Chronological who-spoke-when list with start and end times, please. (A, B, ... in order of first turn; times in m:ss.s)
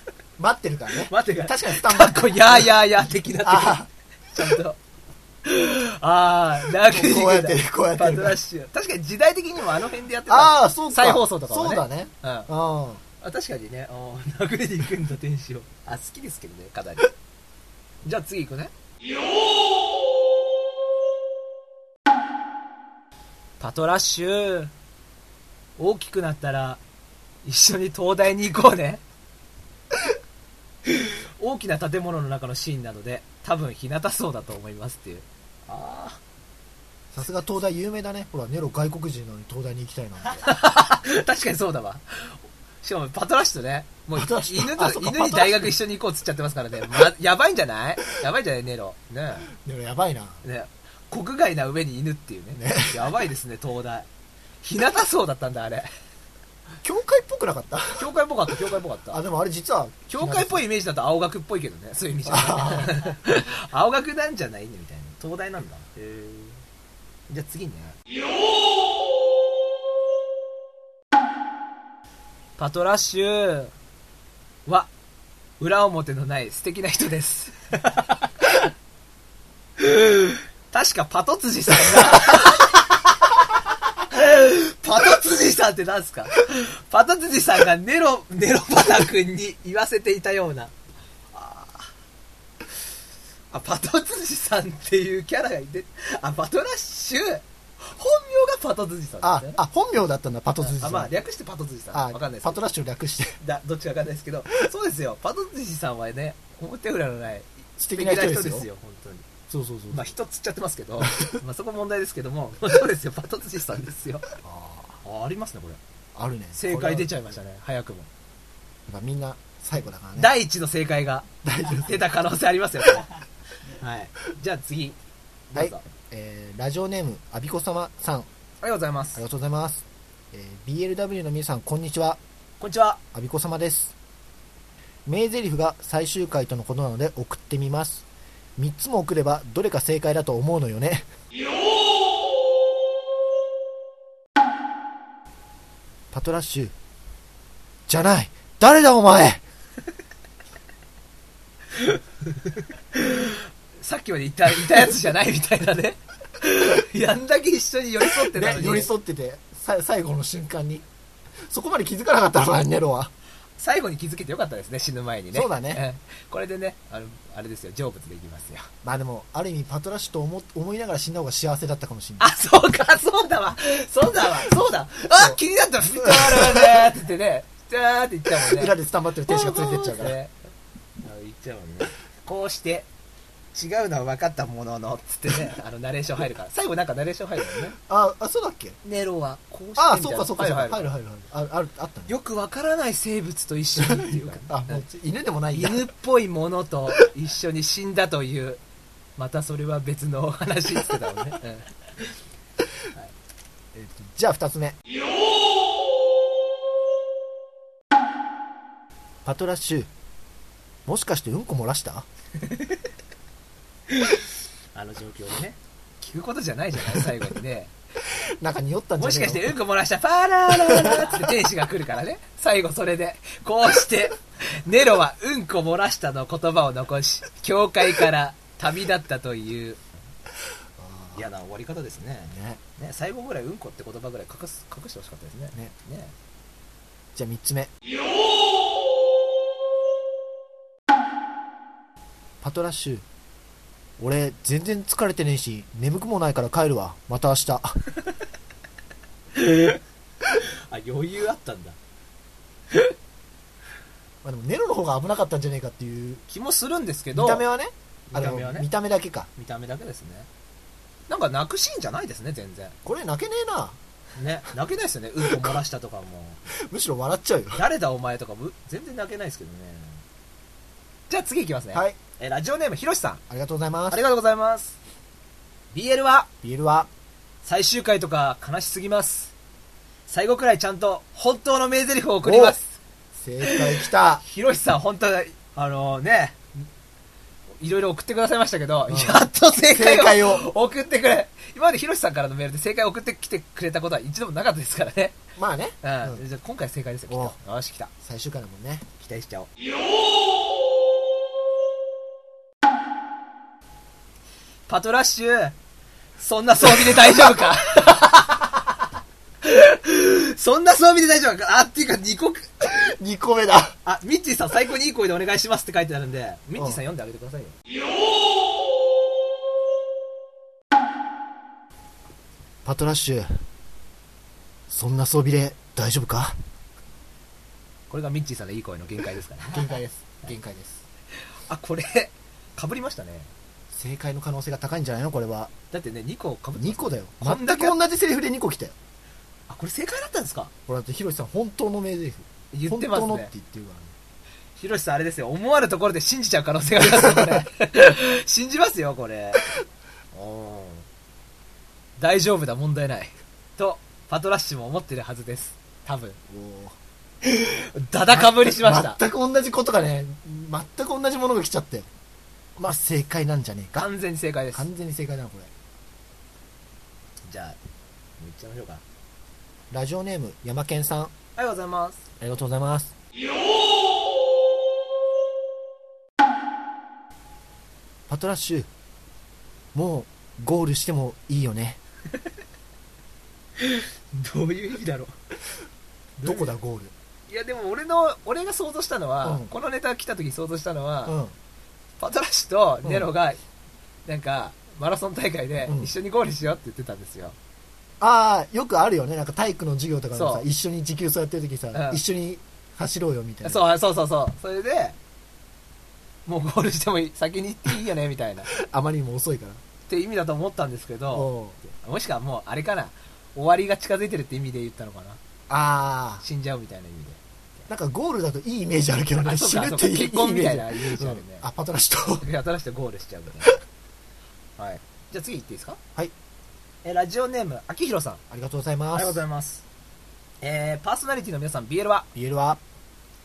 0:00.4-0:02.7 A
0:01.1-0:04.8 B
0:03.4-0:03.9 A
0:05.4-0:12.5 B
0:06.8-0:08.4 A
0:10.3-0:13.0 A
0:13.2-0:17.1 B
0:18.0-0:18.7 B
0:23.6-0:24.7 B
0:25.8-0:26.8 B
0:27.4-0:29.0 B
0:31.0-0:36.2 B
0:37.1-0:40.4 A
0:40.4-0:49.5 B
0:44.1-0:45.7 A
0:49.6-0:50.4 A
0:50.4-0:54.1 B
0:52.6-0:53.0 A
0:54.6-0:55.9 B
0:56.8-0:58.1 A
0:58.0-0:59.2 B
0:59.1-1:00.6 A
1:00.1-1:06.6 B
1:02.2-1:03.0 A
1:07.3-1:08.0 B
1:12.6-1:13.7 B
1:15.6-1:18.7 B
1:19.8-1:23.2 B
1:24.0-1:30.7 B
1:31.3-1:31.9 B
1:33.5-1:39.6 B
1:39.2-1:41.1 A
1:40.6-1:42.6 B
1:41.9-1:43.4 A
1:43.4-1:49.2 B
1:47.8-1:48.7 A
1:49.5-1:50.1 A
1:49.9-1:54.3 B
1:51.0-1:51.3 A
1:54.4-1:55.0 A
1:55.0-1:55.8 B
1:56.1-1:57.2 A
1:56.5-1:58.1 B
1:58.9-2:00.3 A
2:00.1-2:03.1 B
2:01.4-2:02.0 A
2:03.8-2:05.0 B
2:05.5-2:05.8 B
2:05.5-2:08.3 A
2:08.6-2:09.2 B
2:09.1-2:12.2 A
2:12.6-2:13.0 B
2:13.1-2:13.9 A
2:15.0-2:18.0 A
2:18.6-2:21.1 A
2:26.1-2:26.7 A
2:27.9-2:29.4 A
2:32.9-2:38.9 B
2:38.2-2:40.8 A
2:41.4-2:43.1 A
2:43.6-2:48.7 B
2:45.3-2:45.8 A
2:48.8-2:52.3 A
2:52.2-2:58.7 B
2:56.0-2:56.8 A
2:58.4-3:00.2 A
2:59.2-3:00.3 B
3:01.0-3:02.9 B
3:03.5-3:07.8 B
3:07.8-3:08.8 A
3:08.8-3:10.9 B
3:09.8-3:12.1 A
3:12.1-3:14.8 B
3:13.8-3:15.9 A
3:15.5-3:18.6 B
3:19.2-3:21.7 B
3:23.7-3:24.8 A
3:29.2-3:29.9 A
3:30.8-3:32.0 A
3:32.4-3:32.8 B
3:33.9-3:34.2 B
3:34.7-3:37.7 B
3:38.4-3:39.5 A
3:39.0-3:49.8 B
3:40.7-3:41.1 A
3:50.8-3:51.2 A
3:51.1-3:56.1 B
3:52.3-3:52.6 A
3:57.1-3:57.7 A
4:02.4-4:03.0 A
4:04.0-4:07.8 A
4:09.3-4:09.8 B
4:10.3-4:11.8 B
4:14.2-4:16.2 A
4:16.3-4:17.4 B
4:17.1-4:19.3 A
4:18.1-4:18.7 B
4:19.4-4:20.3 B
4:21.1-4:22.7 B
4:22.8-4:23.8 A
4:24.2-4:26.4 B
4:25.2-4:25.5 A
4:26.5-4:27.6 A
4:27.5-4:30.0 B
4:31.1-4:33.2 B
4:33.3-4:34.0 A
4:33.9-4:34.8 B
4:35.7-4:36.3 B
4:36.4-4:36.9 A
4:37.4-4:39.3 B
4:40.1-4:42.8 B
4:42.2-4:42.6 A
4:43.1-4:44.2 A
4:43.4-4:46.5 B
4:47.6-4:55.2 B
4:48.9-4:50.5 A
4:55.4-4:56.2 A
4:55.8-4:57.9 B
4:57.1-4:57.4 A
4:58.0-4:58.8 A
4:59.0-4:59.5 B
5:04.7-5:05.5 B
5:06.2-5:08.4 B
5:09.4-5:12.6 B
5:12.6-5:13.8 A
5:13.8-5:17.5 B
5:16.6-5:16.8 A
5:22.6-5:23.4 A
5:24.7-5:26.4 A
5:27.9-5:29.7 B
5:29.4-5:30.8 A
5:31.5-5:33.3 B
5:33.7-5:35.5 A
5:35.7-5:37.8 B
5:36.6-5:38.7 A
5:39.5-5:40.5 B
5:40.7-5:43.9 A
5:42.5-5:43.3 B
5:44.6-5:49.4 B
5:50.1-5:50.8 B
5:52.0-5:56.2 B
5:56.3-5:56.7 A
5:57.2-5:59.0 B
5:58.1-6:01.9 A
6:02.6-6:03.9 A
6:03.7-6:04.7 B
6:04.5-6:05.5 A
6:07.3-6:07.6 B
6:08.2-6:08.8 B
6:09.7-6:11.1 A
6:11.4-6:12.0 B
6:12.2-6:12.9 A
6:18.1-6:18.7 A
6:19.7-6:21.8 A
6:23.6-6:25.1 B
6:26.2-6:26.9 A
6:26.2-6:26.5 B
6:27.3-6:31.1 B
6:29.2-6:29.5 A
6:31.0-6:31.3 A
6:32.0-6:33.4 B
6:34.0-6:37.4 B
6:35.6-6:35.9 A
6:38.0-6:43.6 A
6:40.1-6:40.4 B
6:41.7-6:42.0 B
6:43.4-6:45.0 B
6:46.2-6:48.5 B
6:48.5-6:49.6 A
6:49.9-6:55.2 B
6:51.1-6:51.6 A
6:55.5-6:56.2 A
6:56.2-6:57.2 B
6:57.7-7:02.3 A
6:59.2-7:01.4 B
7:02.2-7:03.6 B
7:04.6-7:05.8 B
7:06.8-7:08.2 B
7:08.3-7:09.2 A
7:08.9-7:09.6 B
7:10.4-7:12.1 B
7:12.1-7:12.6 A